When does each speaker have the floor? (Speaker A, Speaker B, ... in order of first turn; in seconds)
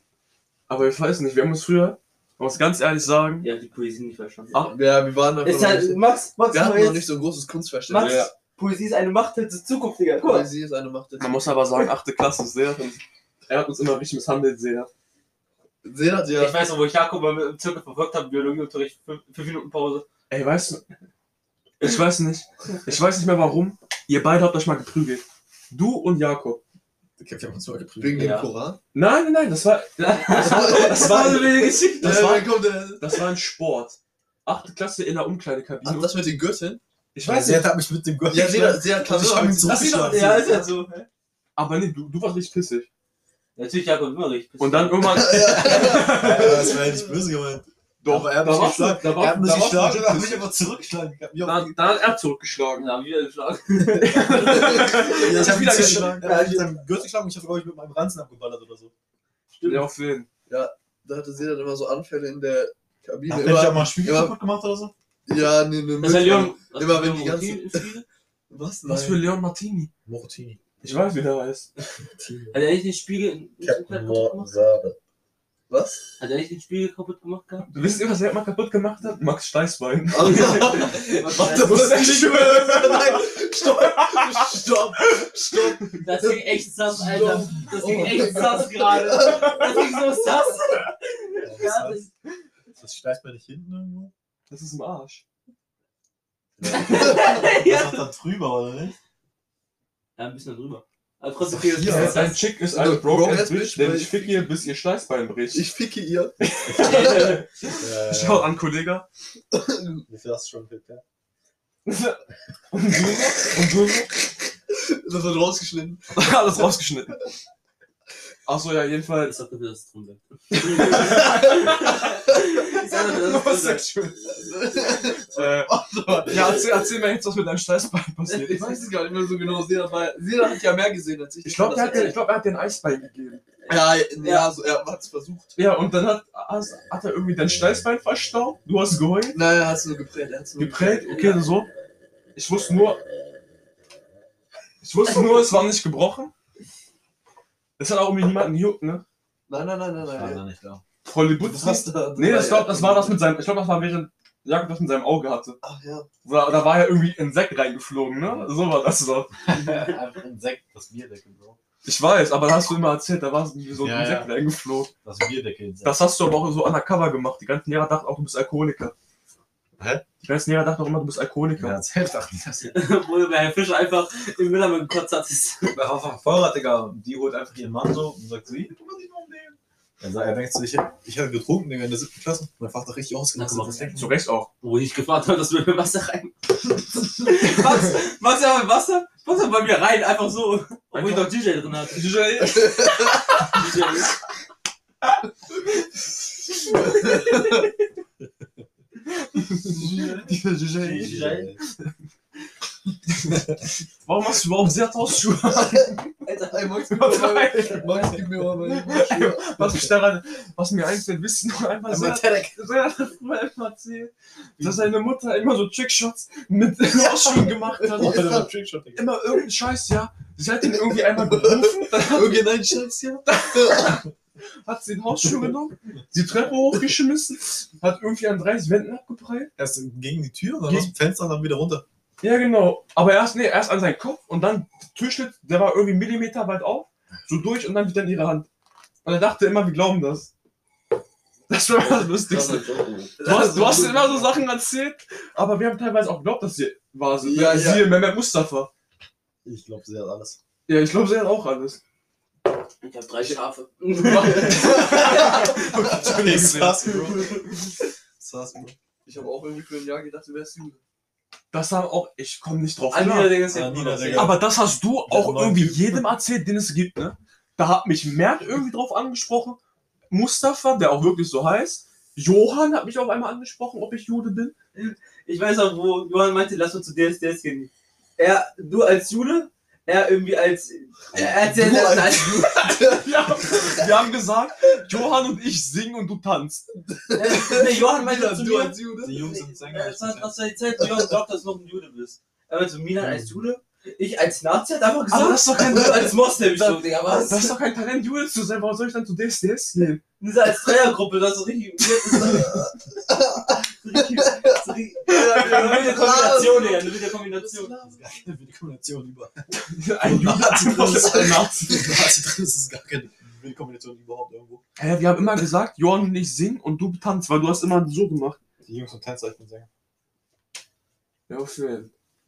Speaker A: 0.7-3.5, 8.0-8.3, 11.2-14.9, 20.3-20.8, 21.8-26.6, 28.9-36.1, 37.1-37.7, 41.6-42.9, 44.6-46.8, 48.0-50.5, 51.4-52.9, 53.9-56.2, 59.6-60.3, 68.9-69.9, 70.8-71.7, 77.7-86.0, 94.5-95.2, 101.8-105.7, 106.4-109.1, 111.8-114.1, 116.1-117.2, 118.5-119.4, 120.5-124.3, 125.1-125.7, 126.2-128.8, 131.4-133.4, 135.6-139.4, 140.6-141.7, 142.3-143.0, 144.8-146.3, 147.8-149.0, 151.0-155.6, 156.2-159.3, 161.8-164.9, 165.8-168.9, 170.2-171.8, 183.9-184.5, 190.9-191.3, 191.9-193.1, 199.2-201.9, 203.2-203.4, 204.0-206.1, 206.9-222.5, 223.3-224.0, 224.6-229.5, 232.2-238.5, 239.0-240.3, 241.5-242.7, 243.2-248.7, 250.7-251.8, 254.0-257.1, 261.5-263.4, 264.1-269.6, 270.1-274.5, 282.9-286.6, 295.1-296.2, 297.3-300.0, 305.1-305.7, 309.5-312.0, 314.8-318.4, 321.3-321.9
Speaker B: 3.4-4.6, 5.4-7.1, 7.9-10.5, 16.4-20.1, 28.1-28.5, 30.0-32.4, 39.6-41.1, 43.6-45.3, 52.8-56.8, 59.5-59.9, 66.0-68.0, 72.5-74.5, 76.2-77.7, 80.2-81.9, 86.0-92.1, 96.6-98.0, 100.2-102.4, 106.8-107.5, 119.2-123.9, 131.8-132.2, 134.2-134.5, 159.6-159.9, 172.7-175.8, 183.4-184.0, 184.6-186.5, 187.2-194.1, 196.8-197.7, 200.8-201.5, 206.2-206.7, 241.8-243.6, 252.8-255.5, 257.0-257.4, 262.9-264.4, 274.8-282.8, 287.1-297.5, 300.2-302.7, 303.6-307.7
Speaker C: 4.7-8.3, 10.2-11.7, 15.8-16.6, 28.0-28.8, 30.4-31.4, 32.0-33.1, 35.8-36.8, 38.3-40.7, 45.0-47.0, 60.5-64.3, 65.3-67.9, 68.5-69.2, 75.7-76.0, 80.1-90.0, 96.8-97.4, 101.8-104.5, 105.5-107.4, 109.5-110.0, 114.7-116.6, 120.9-121.6, 124.3-126.6, 128.4-132.2, 133.7-135.6, 139.3-141.4, 149.5-150.4, 151.4-153.2, 155.6-156.1, 183.4-184.1, 192.4-193.2, 196.8-197.7, 199.7-200.3, 205.6-205.9, 206.5-209.8, 217.9-218.5, 220.9-224.1, 243.2-244.3, 247.2-248.0, 254.3-256.3, 259.1-260.8, 281.4-283.9, 286.9-289.2, 295.7-296.1, 302.1-308.0, 310.9-311.4
Speaker D: 27.2-28.4, 37.2-40.5, 45.5-51.7, 54.9-58.9, 63.3-64.9, 70.1-70.6, 72.2-72.6, 73.6-75.0, 91.4-92.1, 92.8-94.1, 96.6-99.0, 101.5-102.2, 107.8-108.5, 110.1-111.0, 150.0-150.8, 159.3-161.6, 163.8-164.3, 165.0-166.0, 169.8-170.0, 171.6-172.9, 175.7-183.6, 200.9-201.6, 203.3-203.6, 211.9-212.6, 214.6-214.9, 218.0-219.1, 229.6-231.8, 249.4-250.4, 255.8-257.5, 258.2-258.8, 263.5-264.4, 265.1-266.1, 281.1-281.4, 289.0-290.4, 293.0-293.4, 307.8-309.5, 310.0-314.6, 318.6-319.7